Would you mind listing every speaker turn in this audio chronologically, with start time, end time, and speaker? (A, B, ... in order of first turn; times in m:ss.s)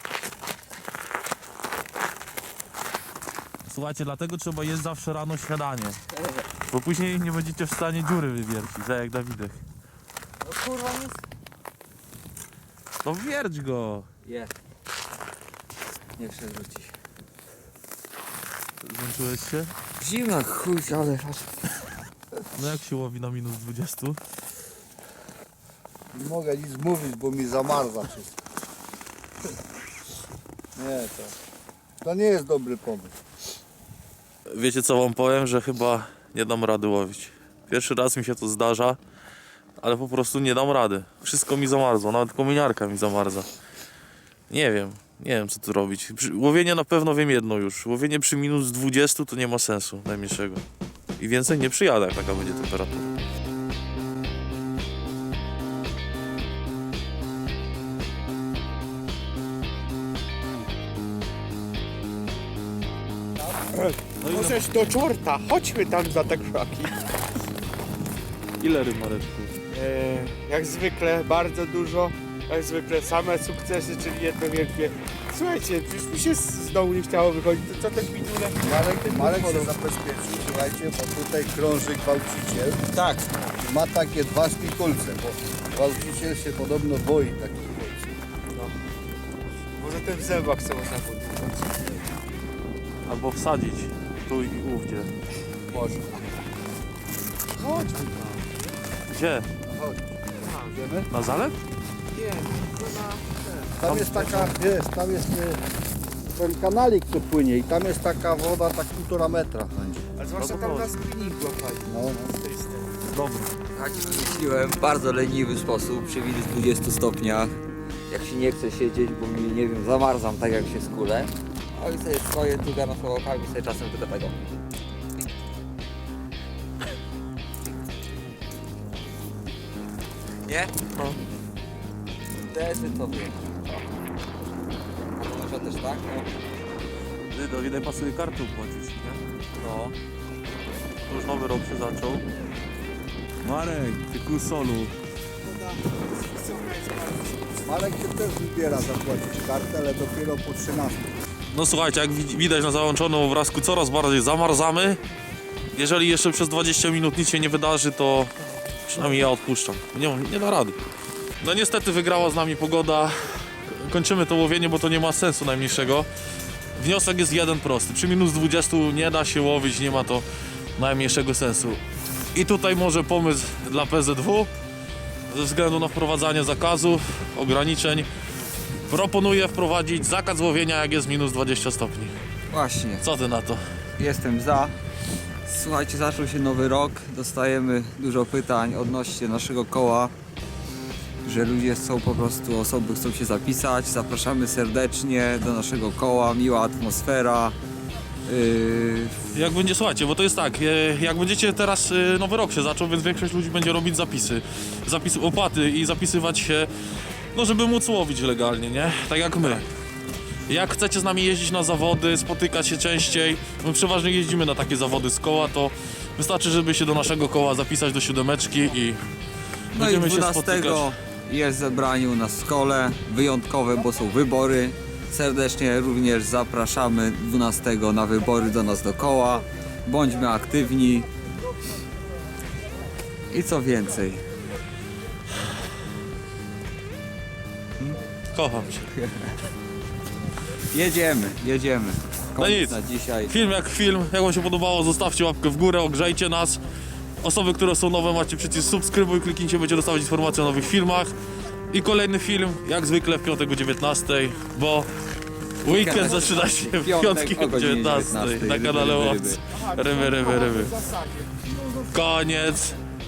0:03.7-0:06.0 A
0:06.7-0:09.6 A
0:10.4-0:11.2 B
0:13.0-0:14.1 A
0:14.2-0:14.5 B
0:16.2-0:16.9 B
0:18.8-0:19.7 A
0:20.0-0:21.7 B
0:22.5-0:24.2 A
0:26.1-0:28.4 C
0:30.8-0:31.4 C
0:32.0-0:33.1 C
0:34.5-0:39.0 A
0:39.8-0:43.5 A
0:44.5-0:50.6 A
0:51.2-0:53.1 A
1:03.7-1:07.0 D
1:04.2-1:04.7 A
1:08.6-1:09.5 A
1:09.7-1:19.8 D
1:18.6-1:22.9 C
1:22.9-1:23.3 D
1:23.6-1:28.1 C
1:29.8-1:32.0 D
1:33.1-1:35.1 A
1:35.7-1:36.1 C
1:37.6-1:38.5 D
1:39.1-1:39.5 A
1:39.6-1:40.0 C
1:40.4-1:40.8 D
1:40.7-1:41.1 C
1:41.1-1:41.6 A
1:42.1-1:43.7 D
1:43.8-1:45.6 C
1:43.8-1:44.5 A
1:46.3-1:50.1 C
1:50.2-1:53.0 D
1:50.4-1:50.9 A
1:51.9-1:52.3 C
1:53.1-1:53.5 A
1:53.7-1:57.6 B
1:58.1-2:04.4 B
2:10.5-2:10.8 B
2:10.9-2:11.2 A
2:12.4-2:13.8 B
2:15.1-2:16.3 B
2:17.3-2:19.9 A
2:21.0-2:22.2 A
2:23.4-2:24.9 A
2:25.5-2:27.6 D
2:27.6-2:31.1 C
2:31.5-2:35.0 A
2:35.7-2:38.3 A
2:38.9-2:40.8 A
2:41.4-2:46.1 A
2:46.8-2:50.2 A
2:50.8-2:51.8 A
2:52.3-2:54.5 A
2:55.3-2:58.1 A
2:58.9-3:02.1 A
3:02.5-3:03.0 B
3:03.0-3:03.6 A
3:04.0-3:04.8 B
3:05.5-3:10.1 B
3:11.2-3:17.6 B
3:18.3-3:19.3 B
3:19.3-3:26.7 A
3:27.3-3:29.7 A
3:30.5-3:39.0 A
3:39.7-3:40.9 A
3:39.7-3:51.1 B
3:53.3-3:54.2 B
3:58.3-3:58.9 A
3:58.9-3:59.3 B
4:00.7-4:03.3 B
4:02.4-4:02.8 A
4:03.3-4:06.6 A
4:07.2-4:11.1 A
4:11.7-4:14.9 A
4:15.6-4:19.4 B
4:15.6-4:20.9 A
4:20.1-4:21.3 D
4:21.6-4:22.8 A